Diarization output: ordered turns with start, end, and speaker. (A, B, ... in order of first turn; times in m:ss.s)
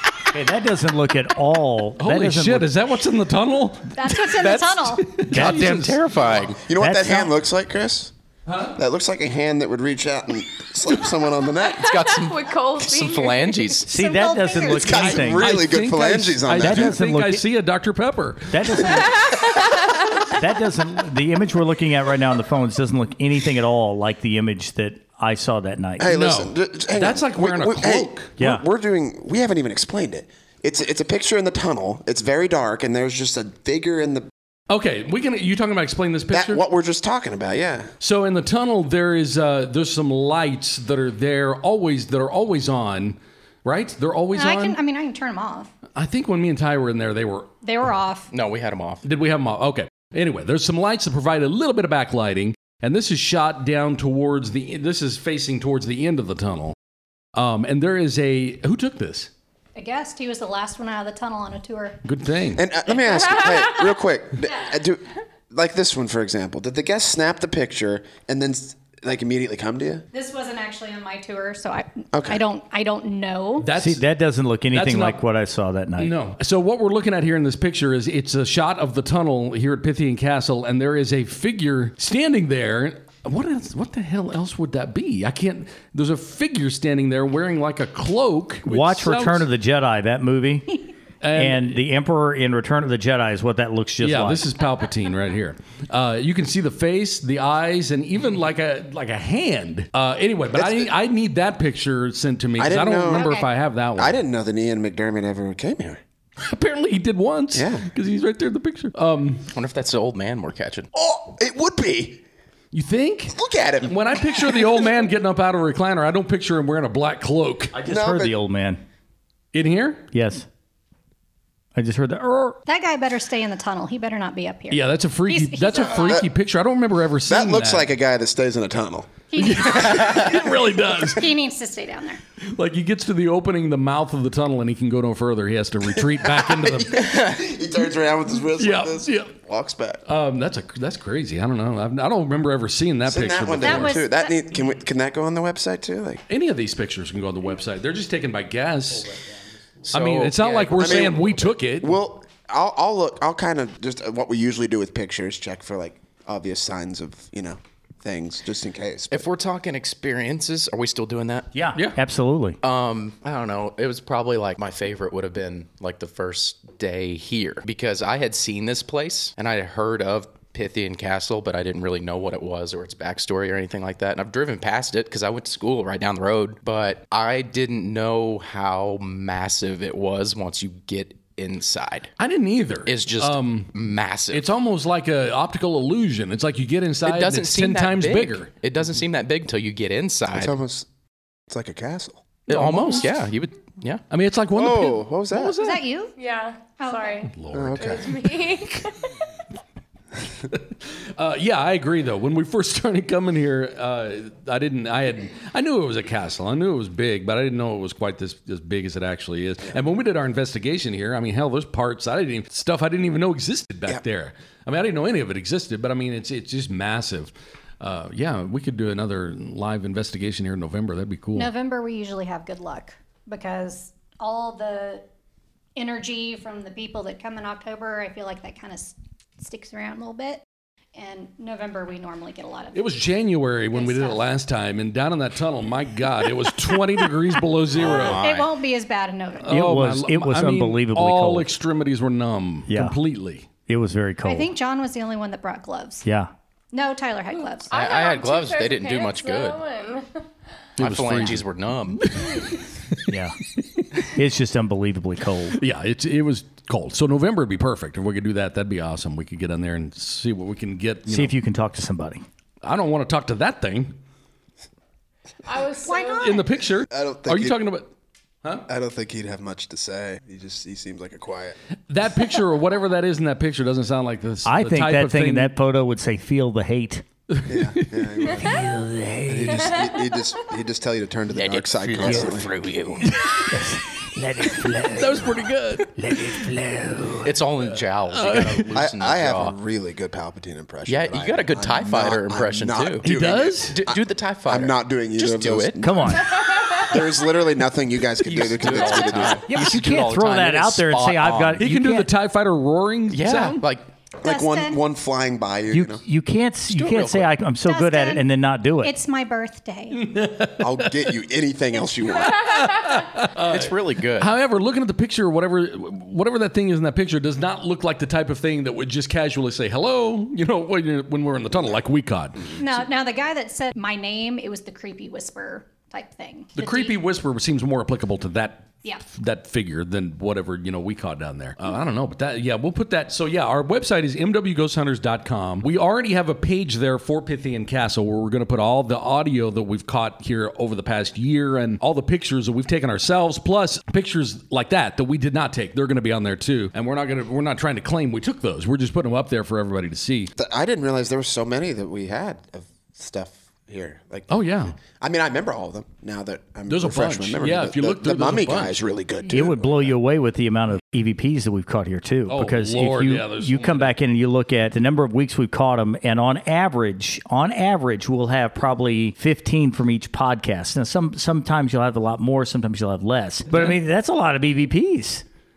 0:00.3-0:02.7 A
0:02.0-0:04.4 B
0:03.9-0:05.2 C
0:04.2-0:06.6 D
0:05.0-0:06.0 B
0:05.3-0:06.0 A
0:06.4-0:08.1 E
0:06.7-0:07.3 A
0:08.4-0:08.8 B
0:08.7-0:11.9 E
0:11.6-0:13.7 F
0:11.8-0:13.9 D
0:13.8-0:15.1 C
0:13.8-0:15.5 A
0:14.6-0:17.0 E
0:14.9-0:18.8 B
0:16.5-0:17.4 A
0:18.5-0:19.3 A
0:19.0-0:20.1 F
0:20.2-0:26.1 A
0:26.0-0:34.3 E
0:26.1-0:28.3 B
0:28.4-0:28.6 A
0:34.7-0:36.6 B
0:36.3-0:37.9 E
0:38.0-0:44.8 B
0:44.3-0:45.7 C
0:45.9-0:47.5 B
0:47.6-0:48.3 C
0:48.3-0:49.0 D
0:49.0-0:56.8 B
0:57.3-0:59.3 B
0:59.8-1:02.0 C
1:02.0-1:02.6 B
1:02.5-1:10.0 E
1:10.1-1:13.7 C
1:12.1-1:12.4 E
1:13.6-1:14.0 B
1:13.7-1:16.1 A
1:14.7-1:15.2 B
1:16.0-1:29.5 B
1:28.6-1:30.8 A
1:31.2-1:31.8 B
1:31.3-1:34.5 A
1:34.0-1:44.2 B
1:40.5-1:40.9 E
1:42.6-1:43.3 E
1:43.1-1:43.5 C
1:44.0-1:46.0 E
1:46.4-1:49.4 B
1:47.5-1:47.9 E
1:49.5-1:50.9 D
1:50.9-1:52.2 E
1:52.7-1:57.7 B
1:53.3-1:54.8 E
1:57.7-1:58.8 A
1:57.8-1:58.3 E
1:59.5-2:00.1 B
2:00.1-2:00.5 A
2:01.7-2:02.6 A
2:02.6-2:06.2 C
2:04.7-2:07.9 B
2:05.8-2:06.3 E
2:07.2-2:09.1 E
2:09.3-2:12.2 C
2:09.4-2:11.3 B
2:12.5-2:17.1 B
2:16.1-2:20.0 E
2:18.6-2:19.3 B
2:20.1-2:24.0 B
2:23.0-2:26.2 E
2:23.6-2:24.6 C
2:26.3-2:29.1 B
2:29.8-2:31.3 D
2:29.9-2:32.0 B
2:30.8-2:39.3 E
2:39.1-2:42.0 D
2:41.5-2:42.6 A
2:42.6-3:02.1 D
3:02.2-3:03.8 B
3:02.8-3:04.5 D
3:04.3-3:08.5 B
3:07.0-3:10.5 D
3:10.3-3:10.9 E
3:11.5-3:12.5 E
3:12.5-3:14.0 D
3:12.5-3:13.1 B
3:14.1-3:15.8 B
3:14.5-3:15.6 E
3:15.6-3:16.2 C
3:16.2-3:19.1 F
3:16.8-3:17.3 C
3:17.3-3:18.1 B
3:17.5-3:18.2 E
3:20.5-3:41.5 B
3:41.3-3:45.0 C
3:45.8-3:50.4 C
3:50.9-3:52.9 C
3:52.7-3:58.2 B
3:53.7-3:54.2 C
3:57.8-3:58.5 D
3:57.8-3:59.5 C
3:59.4-4:03.5 B
3:59.5-4:01.5 A
4:02.7-4:03.0 A
4:03.7-4:04.5 A
4:04.2-4:06.0 C
4:06.0-4:06.3 A
4:06.7-4:07.7 C
4:07.3-4:10.3 F
4:07.7-4:09.6 D
4:10.8-4:12.1 D
4:10.8-4:11.4 A
4:12.0-4:12.5 B
4:13.1-4:13.4 A
4:14.0-4:15.6 A
4:15.5-4:21.3 B
4:21.1-4:22.2 A
4:22.6-4:24.0 B
4:25.4-4:26.4 F
4:25.8-4:26.4 C
4:26.2-4:27.9 B
4:26.9-4:27.6 E
4:28.7-4:31.6 E
4:31.9-4:35.5 B
4:34.4-4:37.0 A
4:37.3-4:38.3 B
4:37.5-4:38.6 E
4:38.3-4:39.8 A
4:39.3-4:42.5 E
4:39.5-4:40.1 F
4:41.3-4:43.1 D
4:43.0-4:47.3 A
4:43.1-4:43.4 B
4:45.0-4:45.9 B
4:47.2-4:49.5 D
4:48.1-4:48.7 B
4:48.7-4:59.4 E
4:50.9-4:53.1 D
4:53.0-4:53.8 B
4:53.7-4:55.9 D
4:55.8-4:56.3 A
4:56.2-4:57.0 F
4:58.2-5:01.6 D
4:58.8-5:02.1 A
5:01.6-5:03.6 B
5:03.1-5:03.9 D
5:04.2-5:06.0 E
5:04.2-5:04.8 C
5:05.7-5:08.9 A
5:06.7-5:07.3 D
5:07.6-5:08.2 C
5:08.8-5:10.1 C
5:09.9-5:11.1 B
5:10.6-5:12.5 E
5:12.2-5:22.6 B
5:12.5-5:13.0 F
5:13.4-5:14.3 D
5:22.6-5:27.0 C
5:26.6-5:50.3 B
5:50.4-5:54.3 E
5:54.3-5:54.7 B
5:55.0-6:00.0 E
5:56.7-5:58.9 B
5:59.3-6:15.2 A
6:02.3-6:03.9 B